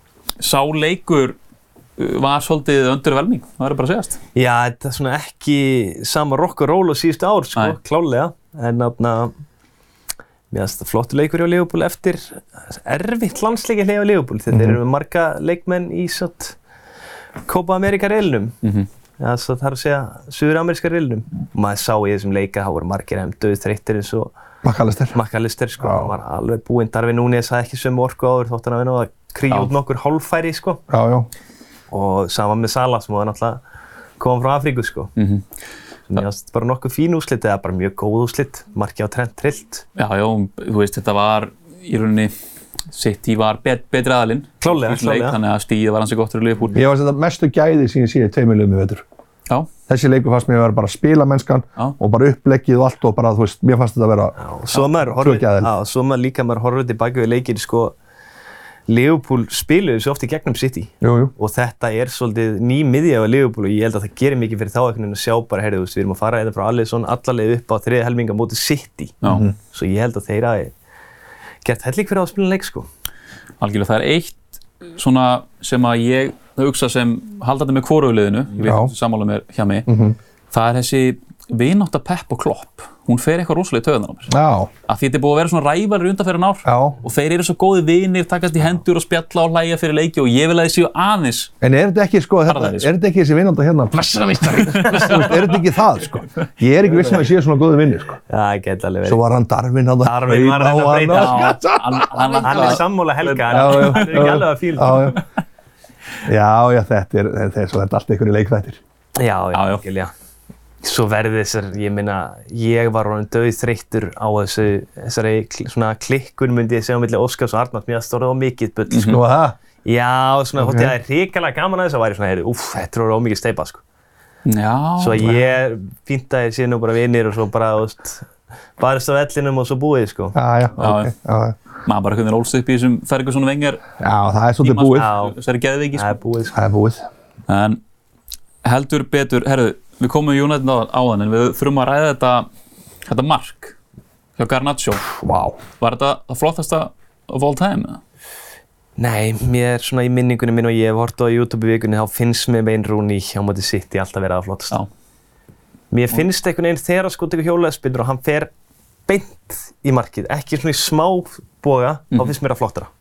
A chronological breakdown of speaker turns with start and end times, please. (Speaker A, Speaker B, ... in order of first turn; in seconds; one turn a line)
Speaker A: 0.4-1.4
Speaker A: 2.0-4.2
Speaker B: 4.3-9.3
Speaker B: 10.5-16.6
Speaker C: 14.5-14.8
Speaker B: 17.5-18.6
Speaker A: 18.6-18.9
Speaker B: 19.2-24.3
Speaker C: 24.6-25.2
Speaker B: 25.1-30.8
Speaker C: 25.8-26.1
Speaker C: 30.9-31.3
Speaker B: 31.9-33.6
Speaker B: 34.2-35.1
Speaker A: 35.2-35.5
Speaker B: 36.1-39.9
Speaker A: 40.0-42.3
Speaker A: 42.9-46.8
Speaker B: 44.6-45.4
Speaker C: 46.8-49.0
Speaker C: 49.9-54.4
Speaker B: 54.4-58.0
Speaker C: 55.0-55.7
Speaker B: 58.9-70.7
Speaker C: 61.0-61.3
Speaker A: 69.2-69.5
Speaker C: 69.3-69.5
Speaker B: 71.7-72.9
Speaker A: 73.6-74.4
Speaker A: 75.0-79.9
Speaker C: 78.6-78.9
Speaker C: 79.9-80.2
Speaker A: 80.5-84.3
Speaker C: 84.3-84.7
Speaker A: 84.9-91.5
Speaker C: 86.7-87.0
Speaker C: 91.6-98.2
Speaker A: 92.5-92.9
Speaker A: 94.6-95.5
Speaker B: 96.9-97.2
Speaker B: 98.3-99.2
Speaker C: 99.0-102.8
Speaker B: 100.0-101.5
Speaker A: 101.1-104.3
Speaker B: 102.4-105.2
Speaker C: 103.5-105.2
Speaker C: 106.2-108.8
Speaker B: 109.2-110.1
Speaker A: 109.5-109.8
Speaker B: 110.8-119.2
Speaker A: 118.9-119.2
Speaker C: 119.1-119.6
Speaker B: 119.8-123.8
Speaker C: 120.6-120.9
Speaker A: 124.5-125.4
Speaker B: 125.0-130.4
Speaker C: 130.3-131.6
Speaker A: 130.8-131.1
Speaker A: 131.8-133.8
Speaker C: 134.0-135.1
Speaker A: 134.6-136.2
Speaker B: 135.0-135.3
Speaker B: 135.9-136.6
Speaker C: 136.5-137.1
Speaker A: 137.5-137.8
Speaker A: 138.6-142.5
Speaker A: 143.1-143.8
Speaker A: 144.4-145.1
Speaker C: 145.1-145.6
Speaker A: 145.8-148.0
Speaker B: 149.0-154.8
Speaker B: 155.9-158.5
Speaker B: 159.1-162.9